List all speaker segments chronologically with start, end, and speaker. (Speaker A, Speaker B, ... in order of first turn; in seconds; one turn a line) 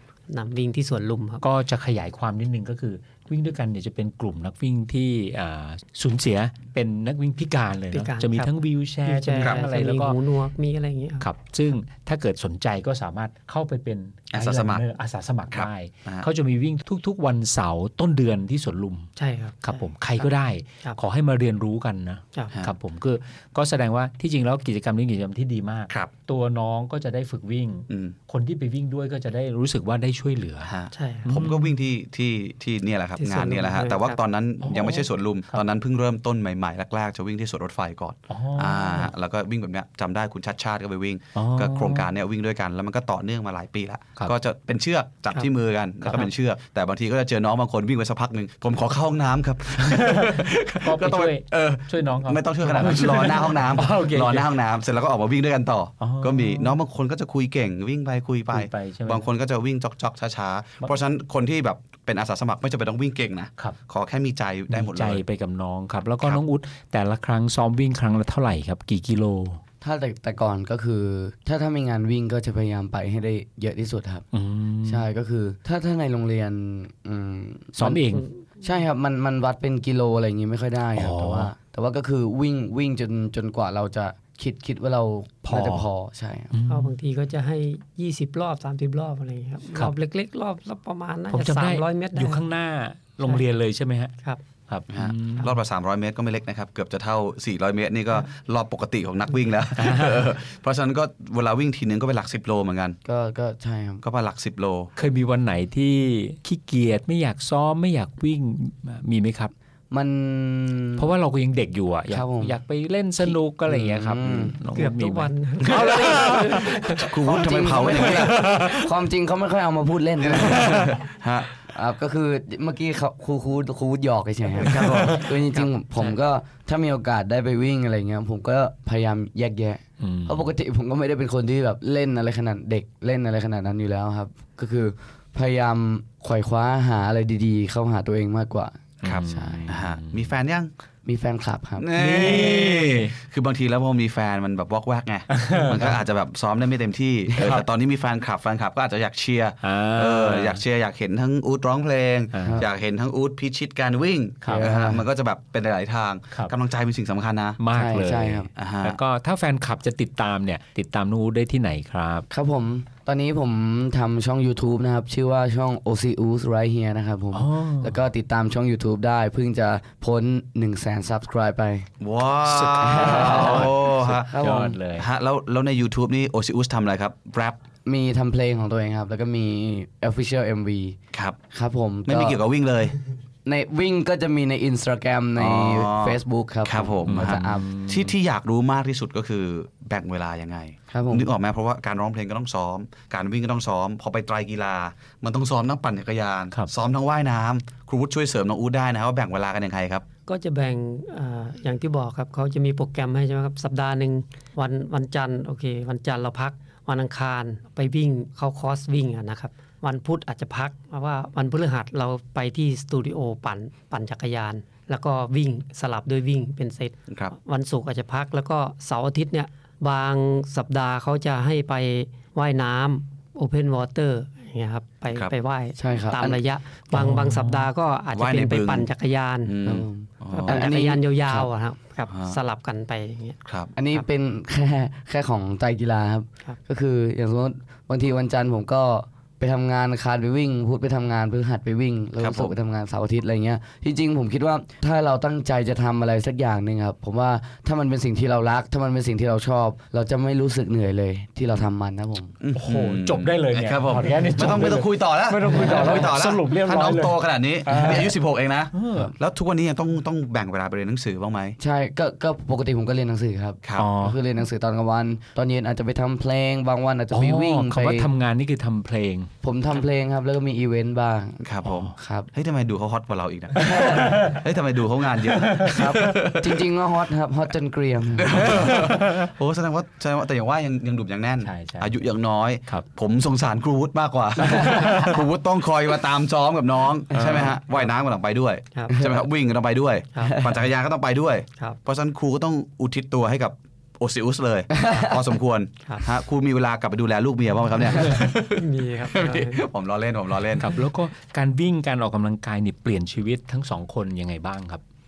Speaker A: 0.3-1.4
Speaker B: 1.4-10.2
Speaker A: 7.9-8.5
Speaker A: 9.0-11.3
Speaker B: 11.2-19.1
Speaker C: 14.3-14.8
Speaker C: 15.5-16.2
Speaker A: 19.1-20.3
Speaker B: 19.6-30.7
Speaker C: 27.9-28.1
Speaker C: 30.6-65.2
Speaker A: 30.9-31.3
Speaker B: 31.2-31.8
Speaker A: 33.2-34.2
Speaker B: 34.6-35.6
Speaker B: 38.3-39.1
Speaker B: 41.3-42.1
Speaker B: 46.0-46.3
Speaker B: 49.8-54.5
Speaker B: 56.0-56.8
Speaker B: 58.5-59.2
Speaker B: 64.7-69.6
Speaker D: 69.8-74.2
Speaker B: 74.3-75.0
Speaker D: 74.8-78.1
Speaker B: 77.8-78.2
Speaker A: 78.2-78.4
Speaker D: 78.6-86.5
Speaker B: 80.9-81.5
Speaker B: 85.5-85.8
Speaker B: 86.5-86.9
Speaker A: 86.7-92.4
Speaker B: 91.3-94.1
Speaker B: 94.7-95.5
Speaker C: 94.9-103.0
Speaker B: 99.8-100.3
Speaker D: 103.0-104.0
Speaker C: 104.0-104.9
Speaker B: 105.0-109.5
Speaker D: 109.9-111.1
Speaker B: 111.0-117.1
Speaker D: 112.1-112.6
Speaker D: 113.2-114.5
Speaker A: 114.7-117.0
Speaker D: 115.8-116.3
Speaker C: 117.0-118.5
Speaker D: 117.1-120.9
Speaker B: 118.0-118.9
Speaker B: 120.3-121.0
Speaker C: 120.4-121.5
Speaker D: 121.7-139.7
Speaker C: 124.6-125.3
Speaker A: 125.5-126.2
Speaker B: 130.0-130.4
Speaker B: 139.0-140.2
Speaker C: 139.0-140.7
Speaker D: 141.0-142.4
Speaker C: 141.8-157.6
Speaker B: 141.9-143.1
Speaker B: 145.3-145.9
Speaker D: 147.3-147.6
Speaker B: 147.4-147.6
Speaker B: 149.6-150.6
Speaker B: 152.3-152.6
Speaker D: 154.4-155.0
Speaker B: 157.6-162.3
Speaker D: 157.7-158.5
Speaker C: 158.6-159.0
Speaker D: 162.3-171.9
Speaker B: 167.3-168.0
Speaker C: 172.0-177.6
Speaker B: 172.5-175.1
Speaker D: 172.8-174.8
Speaker D: 177.8-181.0
Speaker D: 181.5-182.4
Speaker C: 182.1-182.9
Speaker D: 183.4-187.7
Speaker C: 185.4-200.0
Speaker B: 187.1-188.1
Speaker D: 190.9-191.3
Speaker A: 200.3-229.5
Speaker D: 225.8-226.4
Speaker B: 226.9-227.7
Speaker C: 228.1-228.9
Speaker C: 229.4-230.7
Speaker D: 229.6-231.3
Speaker A: 230.3-233.4
Speaker C: 232.1-232.4
Speaker C: 233.4-233.7
Speaker D: 233.7-252.3
Speaker C: 242.2-242.5
Speaker C: 252.4-261.6
Speaker B: 252.6-258.1
Speaker B: 258.7-259.1
Speaker D: 261.6-268.1
Speaker B: 263.8-264.2
Speaker B: 267.1-269.3
Speaker D: 269.4-272.3
Speaker C: 271.4-276.6
Speaker B: 271.6-271.9
Speaker D: 273.6-274.2
Speaker B: 275.4-275.7
Speaker D: 275.6-278.8
Speaker C: 278.1-300.8
Speaker B: 278.5-279.3
Speaker B: 281.4-282.0
Speaker B: 284.4-285.2
Speaker D: 287.1-287.5
Speaker B: 287.1-287.5
Speaker D: 288.9-289.2
Speaker A: 290.1-290.4
Speaker D: 294.7-295.2
Speaker A: 298.5-299.6
Speaker B: 300.6-304.8